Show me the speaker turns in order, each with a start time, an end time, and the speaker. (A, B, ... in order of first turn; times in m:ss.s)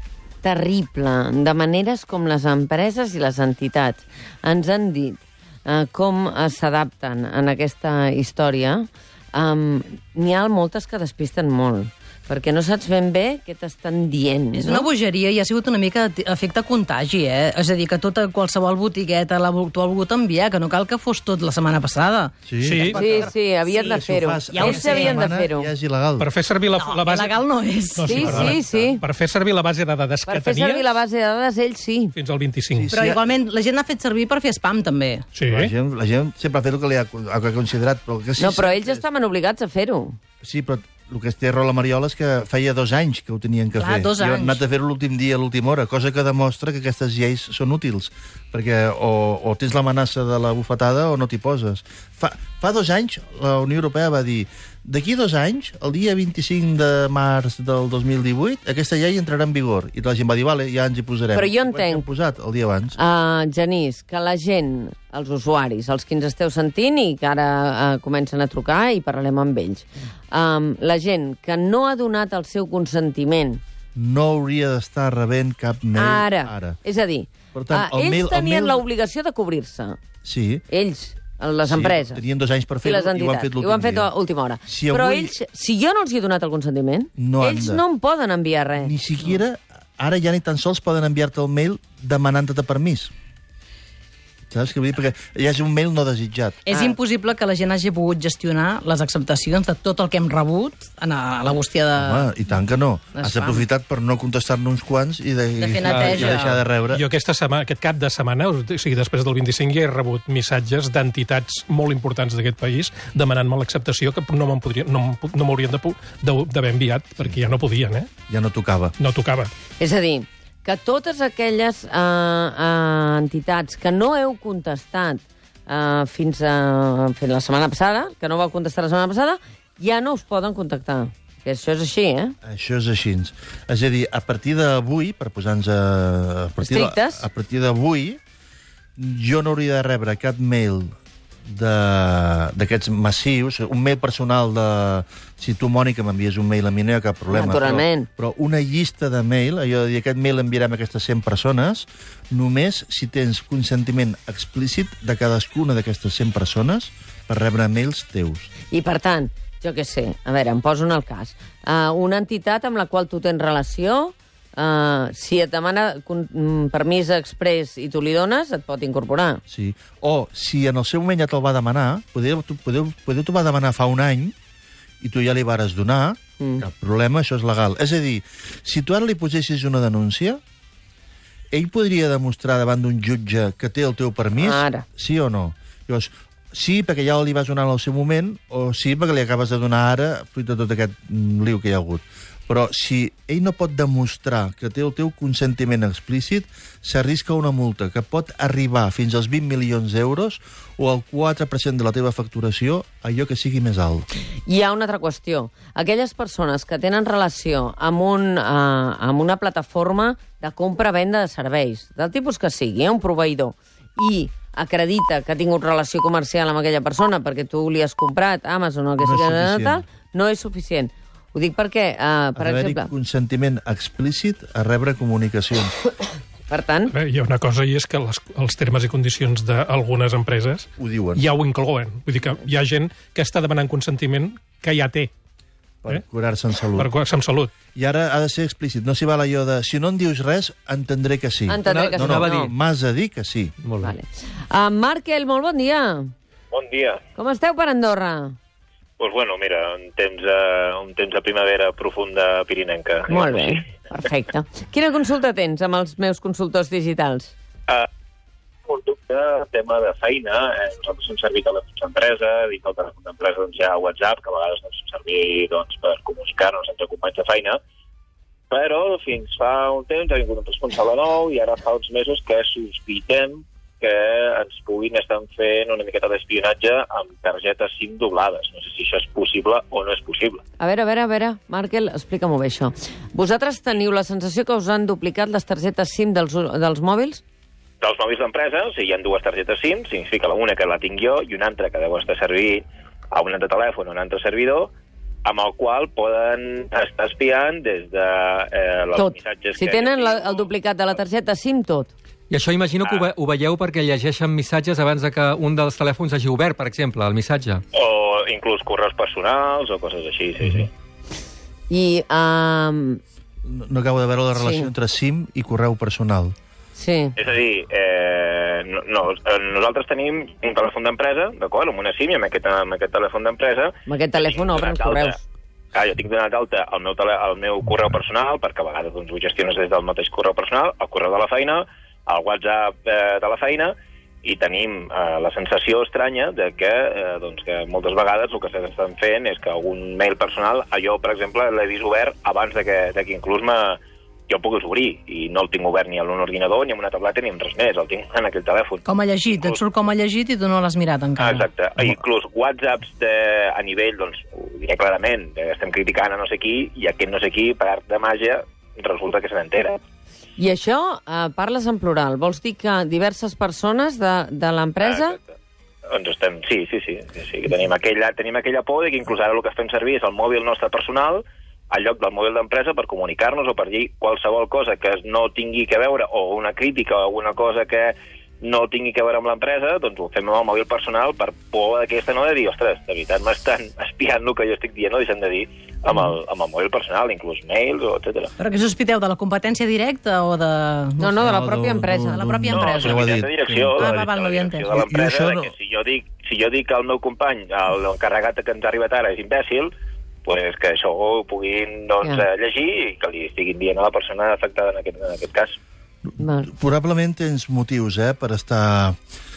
0:00.4-0:14.9 A
0:14.5-0:23.0 B
0:22.4-0:23.0 C
0:22.6-0:23.2 D
0:22.9-0:25.7 A
0:23.6-0:26.3 C
0:24.5-0:25.2 B
0:26.2-0:27.4 D
0:26.7-0:28.5 B
0:27.9-0:30.9 D
0:28.0-0:29.0 A
0:30.2-0:32.1 A
0:32.1-0:32.9 D
0:32.7-0:33.3 C
0:32.9-0:35.3 B
0:35.3-0:35.7 D
0:35.5-0:39.0 C
0:38.4-0:40.2 A
0:40.4-1:03.0 C
0:43.8-0:44.6 B
1:01.3-1:02.0 A
1:03.0-1:13.6 A
1:13.9-1:16.8 C
1:16.0-1:20.0 A
1:17.5-1:18.8 C
1:20.2-1:20.6 C
1:20.7-1:22.2 A
1:21.6-1:24.1 C
1:22.8-1:28.9 A
1:24.6-1:25.3 C
1:27.2-1:27.8 C
1:28.8-1:33.1 C
1:34.5-1:36.6 C
1:36.6-1:42.3 B
1:42.0-1:47.0 C
1:43.1-1:43.6 B
1:45.6-1:46.6 B
1:46.9-1:58.1 D
1:58.3-1:58.9 C
1:59.0-1:59.5 D
1:59.8-2:12.4 A
2:12.4-2:18.2 C
2:16.6-2:17.3 A
2:19.0-2:20.9 C
2:21.4-2:38.5 C
2:27.3-2:28.1 A
2:38.7-2:49.4 A
2:49.5-2:54.3 C
2:55.0-3:00.4 C
3:01.5-3:24.0 C
3:04.4-3:04.8 A
3:24.5-3:42.9 A
3:39.0-3:39.8 C
3:42.4-3:45.7 C
3:46.5-3:46.9 A
3:46.9-3:55.1 D
3:50.8-3:51.2 C
3:55.8-3:56.9 C
3:56.7-3:57.5 D
3:57.7-4:03.5 C
4:01.5-4:02.5 A
4:01.6-4:02.5 E
4:03.6-4:03.9 E
4:03.8-4:06.1 A
4:06.5-4:07.0 F
4:07.2-4:08.3 A
4:09.0-4:13.7 F
4:13.1-4:17.3 A
4:18.6-4:27.6 F
4:28.5-4:40.4 F
4:40.6-4:47.2 A
4:47.8-4:54.7 F
4:55.2-5:00.5 F
4:58.9-5:01.9 A
5:02.3-5:07.6 E
5:02.8-5:03.1 F
5:07.7-5:10.7 F
5:11.7-5:13.0 A
5:13.4-5:16.3 C
5:14.3-5:14.7 A
5:16.8-5:17.1 A
5:17.2-5:25.2 F
5:23.9-5:25.2 A
5:25.7-5:49.6 F
5:48.8-5:51.5 B
5:51.2-5:59.8 F
6:00.4-6:05.2 A
6:04.8-6:05.3 F
6:05.9-6:28.3 F
6:28.4-6:31.1 B
6:31.0-6:32.3 A
6:31.2-6:33.9 C
6:32.1-6:33.1 B
6:32.5-6:39.7 F
6:33.7-6:34.7 B
6:34.7-6:35.5 C
6:40.2-6:45.6 F
6:46.1-6:49.0 C
6:46.2-6:46.5 A